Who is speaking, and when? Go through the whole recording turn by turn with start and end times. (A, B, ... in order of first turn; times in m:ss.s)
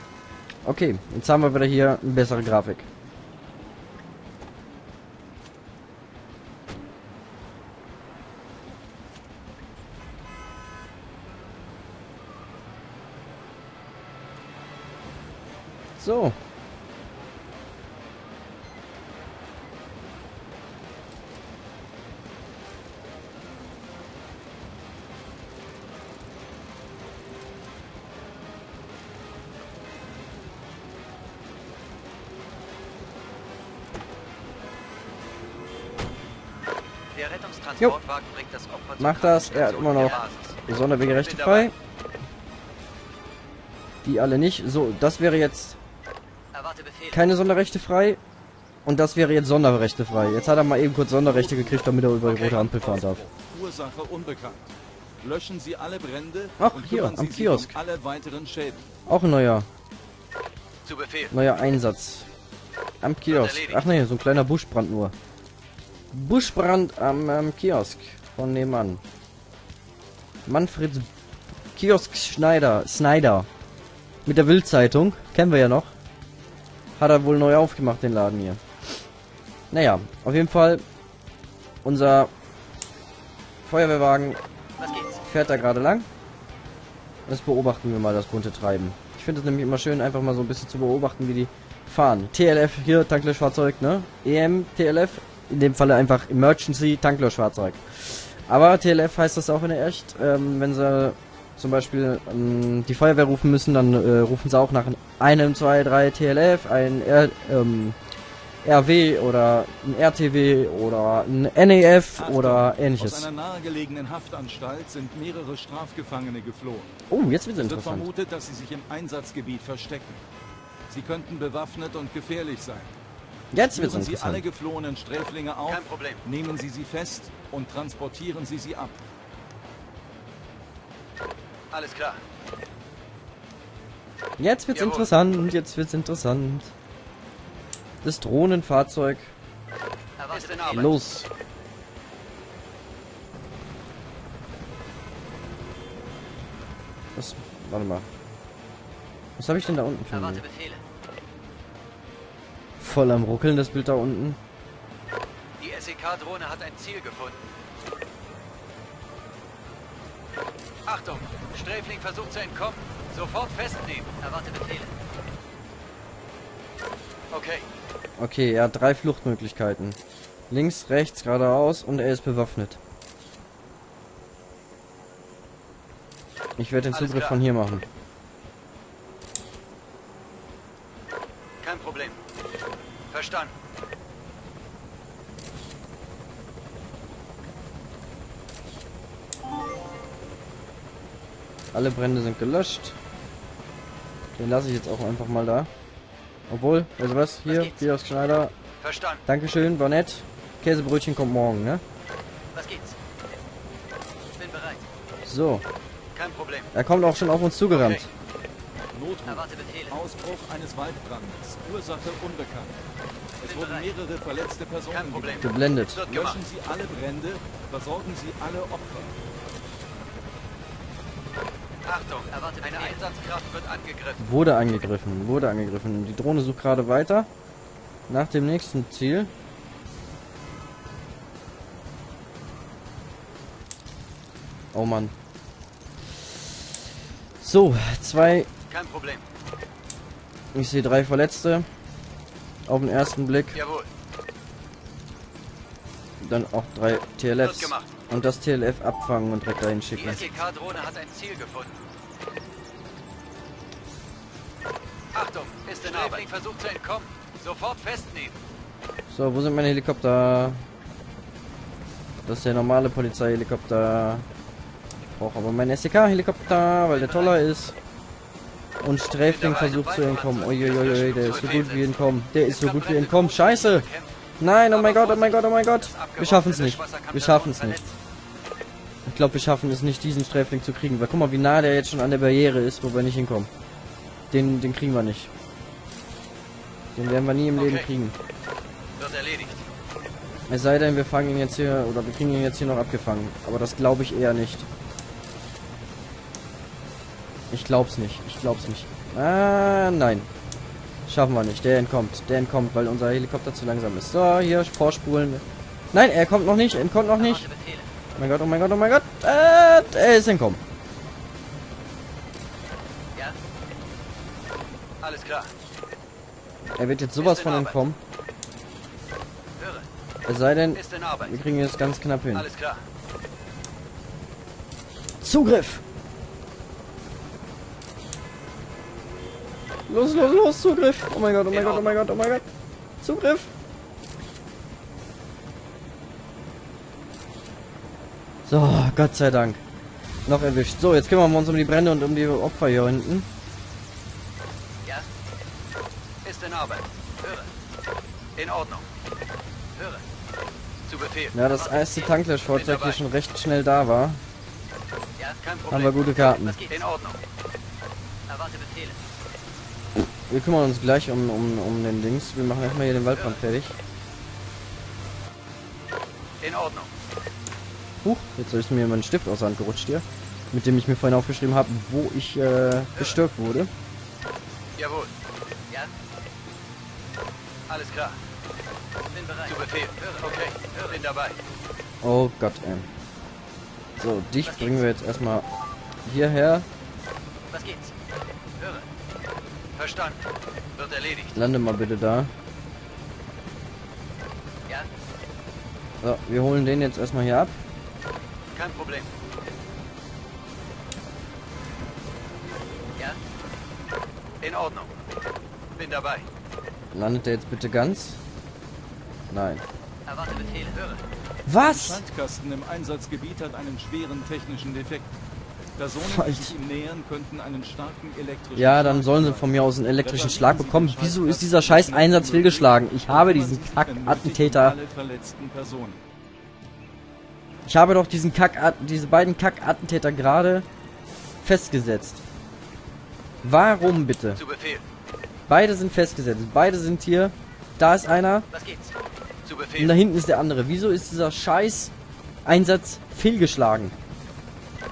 0:00.6-0:02.9 A
0:16.0-0:16.4 A
0:37.1-0:40.6 B
0:39.0-0:41.7 A
0:41.1-0:41.7 B
0:44.0-0:45.8 A
0:47.1-0:48.2 A
0:48.8-0:53.2 A
0:51.2-0:58.9 C
0:52.4-0:52.6 B
0:56.6-0:57.7 A
0:59.1-0:59.7 A
1:00.8-1:01.3 B
1:01.3-1:02.3 A
1:03.0-1:05.1 A
1:03.3-1:03.9 B
1:06.1-1:09.0 A
1:10.4-1:11.1 A
1:11.7-1:13.5 A
1:14.2-1:15.9 A
1:17.0-1:18.6 A
1:19.7-1:20.8 A
1:21.8-1:22.3 A
1:23.6-1:24.4 A
1:25.2-1:26.1 A
1:27.3-1:48.0 A
1:48.6-1:53.3 A
1:52.2-1:56.9 C
1:57.1-1:58.1 A
1:57.6-2:00.2 C
2:00.9-2:02.9 C
2:03.5-2:04.4 A
2:03.7-2:09.0 C
2:05.7-2:06.2 B
2:11.7-2:12.2 B
2:14.4-2:16.7 A
2:14.7-2:15.1 B
2:18.0-2:19.3 A
2:20.3-2:21.0 B
2:20.3-2:21.3 A
2:27.1-2:28.1 A
2:29.4-2:30.4 A
2:32.8-2:34.4 A
2:35.6-2:37.4 B
2:40.8-2:44.2 B
2:47.3-2:47.7 B
2:48.2-2:50.0 A
2:50.5-2:52.8 A
2:56.6-2:57.8 A
2:56.9-2:57.4 B
3:01.6-3:02.2 B
3:03.1-3:03.5 B
3:11.7-3:13.0 A
3:14.4-3:15.7 A
3:16.5-3:18.5 A
3:18.8-3:19.2 B
3:19.2-3:21.8 A
3:25.2-3:25.6 A
3:26.1-3:26.7 B
3:26.7-3:28.1 A
3:27.7-3:28.0 B
3:28.9-3:32.7 C
3:33.4-3:39.1 C
3:34.9-3:36.4 B
3:35.4-3:36.0 A
3:41.8-3:44.2 B
3:44.2-3:47.3 A
3:48.1-3:49.3 A
3:54.7-3:55.1 A
3:57.4-3:58.5 A
3:58.7-3:59.2 B
4:00.5-4:01.6 A
4:02.7-4:03.6 A
4:03.5-4:03.9 B
4:06.2-4:10.2 A
4:07.4-4:07.9 B
4:09.9-4:11.7 B
4:15.1-4:18.4 B
4:15.8-4:16.2 A
4:19.1-4:20.6 A
4:22.2-4:24.2 A
4:25.2-4:27.8 A
4:26.9-4:27.3 B
4:28.8-4:33.9 A
4:29.2-4:34.1 B
4:34.4-4:37.8 A
4:34.7-4:37.9 B
4:39.0-4:43.5 A
4:44.3-4:45.3 A
4:46.9-4:48.1 A
4:47.5-4:47.9 B
4:49.0-4:49.6 B
4:50.5-4:54.7 A
4:57.5-5:00.3 A
5:01.0-5:07.5 A
5:08.2-5:10.6 A
5:15.0-5:15.5 B
5:16.8-5:18.0 A
5:17.2-5:17.8 B
5:19.6-5:19.8 B
5:20.3-5:22.5 A
5:20.7-5:21.4 B
5:22.3-5:22.8 B
5:25.2-5:25.8 A
5:29.9-5:32.5 A
5:31.5-5:32.0 B
5:33.0-5:33.5 A
5:38.4-5:39.6 A
5:40.2-5:43.3 A
5:46.2-5:46.9 B
5:48.4-5:48.9 B
5:50.9-5:51.4 B
5:51.3-5:54.2 A
5:52.5-5:53.0 B
5:55.4-5:56.0 B
5:55.7-5:56.6 A
5:56.6-5:57.2 B
6:00.0-6:03.8 A
6:06.4-6:06.9 B
6:08.0-6:13.7 A
6:14.8-6:15.1 B
6:17.7-6:18.2 B
6:19.4-6:21.4 B
6:22.0-6:22.9 A
6:24.0-6:25.4 A
6:26.0-6:26.6 A
6:29.8-6:30.2 B
6:30.8-6:31.4 B
6:31.3-6:32.3 A
6:36.0-6:37.6 A
6:38.5-6:39.1 B
6:44.4-6:44.9 B
6:45.8-6:46.2 B
6:46.9-6:48.2 A
6:49.3-6:49.6 A
6:51.5-6:52.0 A
6:51.6-6:55.1 C
6:55.8-7:06.0 C
6:56.0-6:56.5 A
6:58.5-7:04.8 A
7:07.6-7:10.6 A
7:11.4-7:12.2 A
7:13.4-7:14.4 A
7:14.4-7:14.8 B
7:15.5-7:18.5 A
7:19.4-7:19.9 B
7:19.8-7:21.9 A
7:22.4-7:23.9 A